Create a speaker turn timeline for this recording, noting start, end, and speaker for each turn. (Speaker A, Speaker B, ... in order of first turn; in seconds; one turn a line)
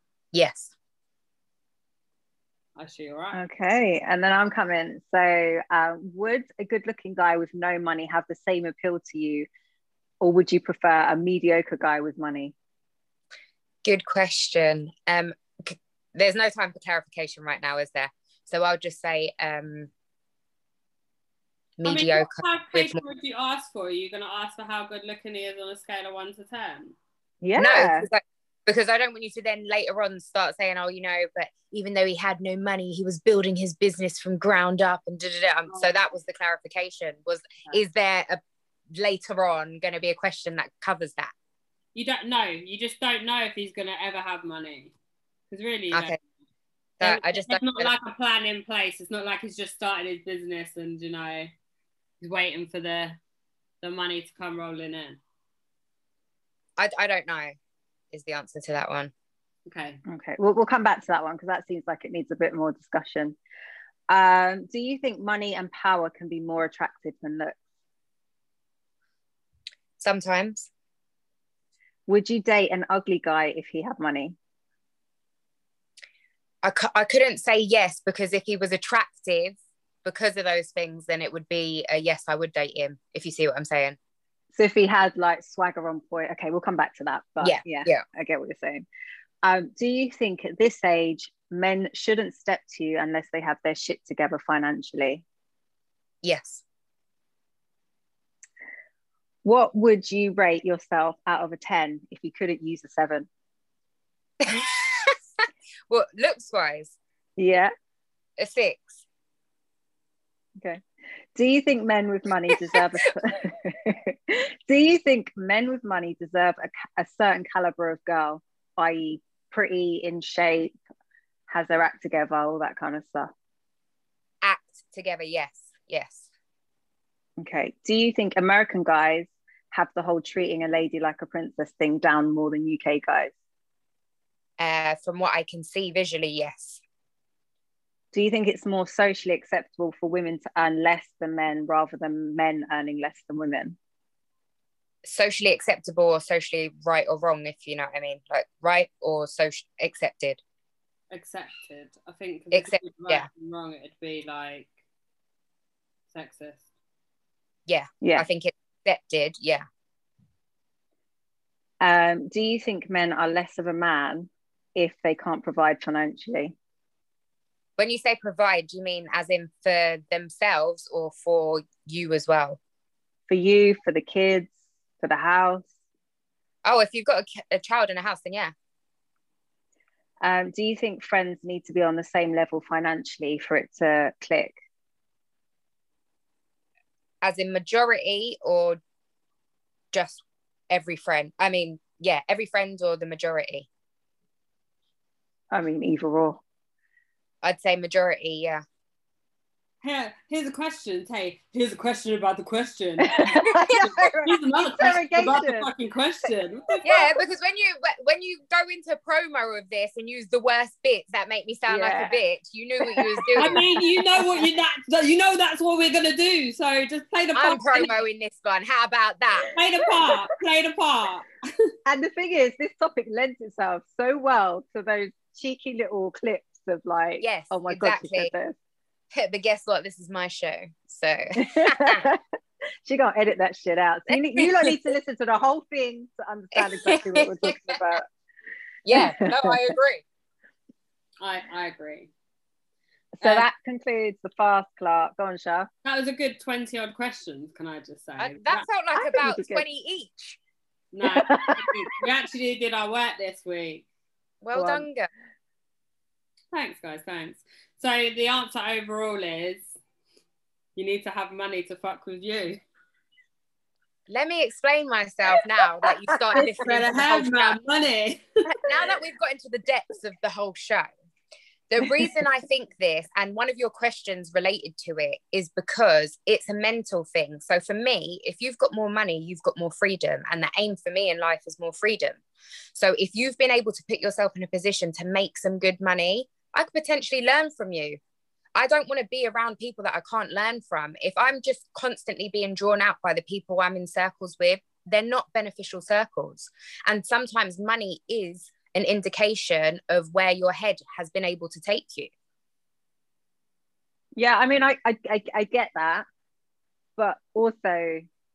Speaker A: 0.3-0.7
Speaker B: 2.8-3.4
Speaker C: 3.3-9.5
Speaker C: 10.2-12.5
Speaker A: 13.8-19.9
Speaker A: 21.8-23.0
Speaker B: 21.8-26.9
Speaker C: 27.4-28.1
Speaker A: 27.6-38.4
Speaker B: 35.7-36.0
Speaker A: 38.9-41.3
Speaker B: 41.9-44.9
Speaker B: 45.5-46.2
Speaker A: 45.9-46.2
Speaker A: 47.0-47.9
Speaker B: 47.0-51.5
Speaker B: 52.2-53.2
Speaker B: 53.8-55.2
Speaker A: 56.8-57.5
Speaker A: 58.1-59.1
Speaker B: 59.7-60.0
Speaker C: 60.1-63.4
Speaker C: 64.1-67.6
Speaker A: 70.0-70.7
Speaker C: 72.1-74.3
Speaker A: 76.6-84.0
Speaker C: 84.5-88.8
Speaker A: 87.4-88.0
Speaker C: 89.4-95.2
Speaker A: 96.2-96.6
Speaker C: 99.4-103.3
Speaker A: 104.4-107.0
Speaker C: 107.4-107.7
Speaker A: 108.4-109.0
Speaker C: 111.4-120.8
Speaker C: 121.5-123.3
Speaker A: 124.4-126.3
Speaker C: 127.4-133.3
Speaker A: 134.6-136.8
Speaker C: 138.1-143.8
Speaker A: 145.1-150.4
Speaker B: 151.1-154.7
Speaker A: 152.5-153.3
Speaker B: 156.1-156.6
Speaker A: 157.7-159.6
Speaker C: 158.0-158.3
Speaker C: 161.8-166.6
Speaker A: 167.8-172.6
Speaker C: 173.3-175.7
Speaker A: 176.6-178.5
Speaker C: 180.2-184.6
Speaker A: 187.2-188.8
Speaker A: 189.9-193.7
Speaker C: 195.5-196.4
Speaker A: 197.4-198.6
Speaker B: 199.8-203.4
Speaker C: 203.1-205.7
Speaker B: 204.2-207.2
Speaker A: 206.8-213.6
Speaker C: 211.7-212.2
Speaker C: 212.8-214.3
Speaker B: 213.4-217.9
Speaker A: 217.3-219.5
Speaker B: 219.5-221.3
Speaker C: 221.9-228.6
Speaker A: 227.2-228.3
Speaker A: 229.1-232.1
Speaker C: 231.4-232.2
Speaker C: 232.8-238.1
Speaker A: 234.1-234.8
Speaker A: 236.6-237.8
Speaker A: 238.8-240.0
Speaker C: 238.9-239.6
Speaker B: 241.2-242.1
Speaker C: 243.2-245.7
Speaker B: 245.8-248.7
Speaker A: 248.2-250.4
Speaker C: 248.9-249.6
Speaker B: 250.9-253.8
Speaker C: 251.1-251.7
Speaker A: 254.4-255.1
Speaker C: 254.5-254.9
Speaker B: 256.5-259.8
Speaker B: 260.8-262.6
Speaker A: 264.1-267.6
Speaker C: 266.1-266.7
Speaker B: 266.3-268.2
Speaker A: 268.4-270.9
Speaker A: 271.7-282.2
Speaker A: 282.7-288.0
Speaker A: 288.6-302.1
Speaker C: 304.2-306.1
Speaker C: 307.0-308.1